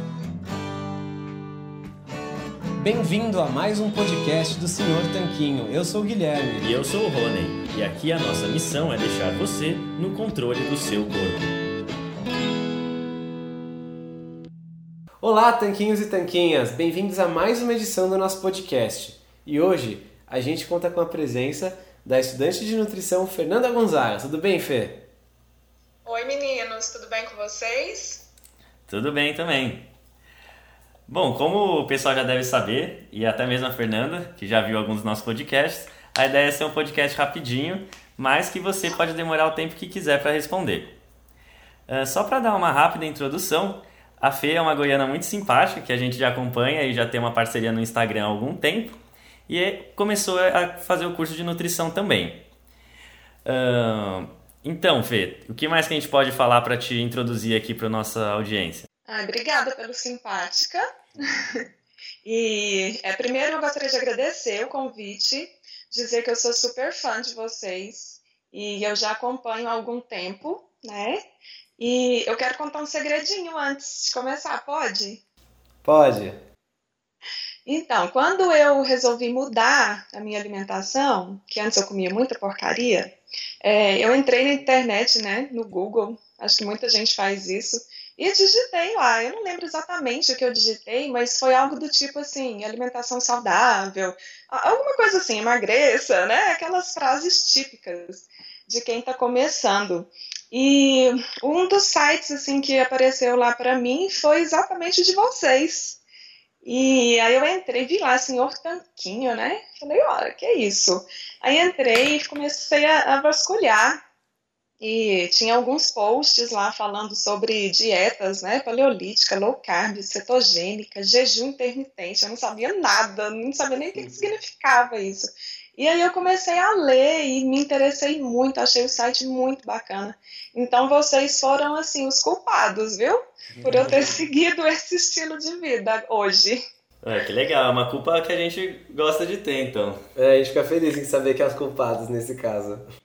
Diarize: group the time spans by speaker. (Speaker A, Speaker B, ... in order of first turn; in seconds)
Speaker A: 2.8-6.7, 15.2-25.1, 75.8-76.4, 124.0-124.3, 133.6-134.1, 140.2-142.9
Speaker B: 6.6-11.6, 28.9-29.9, 31.1-40.9, 41.9-49.0, 49.5-52.5, 53.5-58.9, 137.0-140.0
Speaker C: 26.1-28.2, 59.1-61.6, 62.2-71.2, 71.8-75.2, 77.7-83.1, 83.6-106.0, 106.6-114.0, 114.8-136.6